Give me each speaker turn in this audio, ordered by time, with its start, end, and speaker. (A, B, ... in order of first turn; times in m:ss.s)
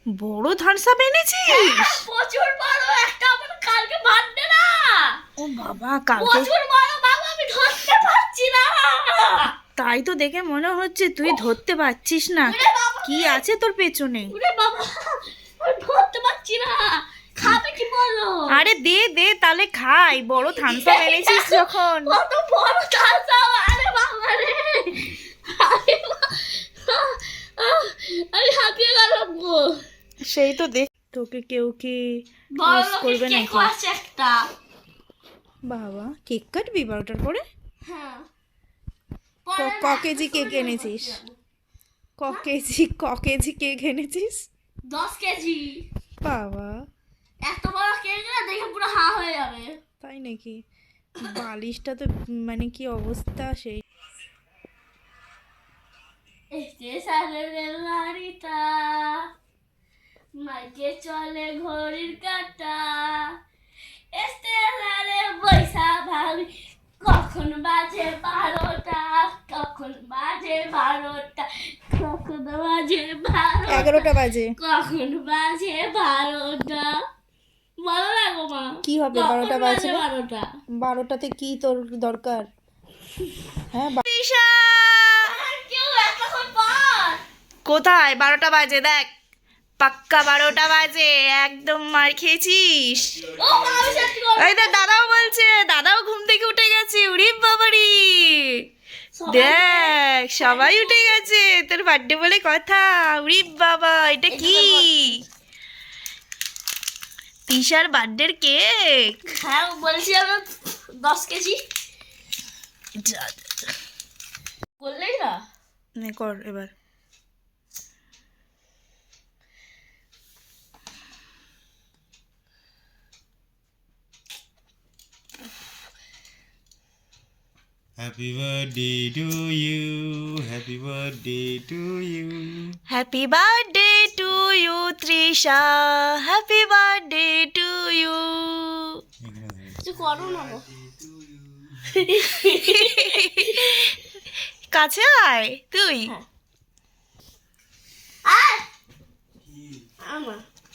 0:00.1-0:02.0 A
0:01.5-0:05.2 B
0:05.4-0:06.5 A
0:06.2-0:09.5 B
0:09.8-0:14.3 A
0:11.2-0:11.5 B
0:12.4-0:13.4 B
0:14.3-0:18.6 B
0:18.5-0:22.2 A
0:20.6-0:29.8 B
0:30.2-0:33.7 A
0:32.5-0:34.4 B
0:35.6-0:37.4 A
0:37.9-0:38.3 B
0:39.4-0:41.4 B
0:39.6-0:41.2 A
0:42.2-0:44.5 A
0:44.9-0:45.9 B
0:46.2-0:46.8 A
0:47.4-0:49.8 B
0:50.0-0:50.6 A
0:51.2-0:53.8 A
0:56.5-0:59.3 B
1:00.4-1:03.3 B
1:04.1-1:06.5 B
1:07.0-1:17.0 B
1:13.7-1:14.5 A
1:17.8-1:20.5 B
1:18.8-1:20.0 A
1:20.8-1:22.5 A
1:23.7-1:25.3 A
1:25.2-1:27.2 B
1:27.6-1:29.1 A
1:29.8-1:33.2 A
1:33.4-1:35.3 B
1:34.4-1:38.6 A
1:39.1-1:41.2 B
1:39.3-1:45.2 A
1:44.3-1:45.2 B
1:47.5-1:49.2 A
1:49.4-1:51.6 B
1:53.0-1:53.4 A
1:54.8-1:55.4 B
1:56.0-1:56.7 A
2:08.0-2:12.8 C
2:12.9-2:19.0 A
2:19.2-2:21.5 C
2:19.8-2:20.7 B
2:21.9-2:23.9 B
2:22.6-2:23.9 A
2:24.7-2:26.1 A
2:28.2-2:28.7 B
2:30.0-2:30.4 B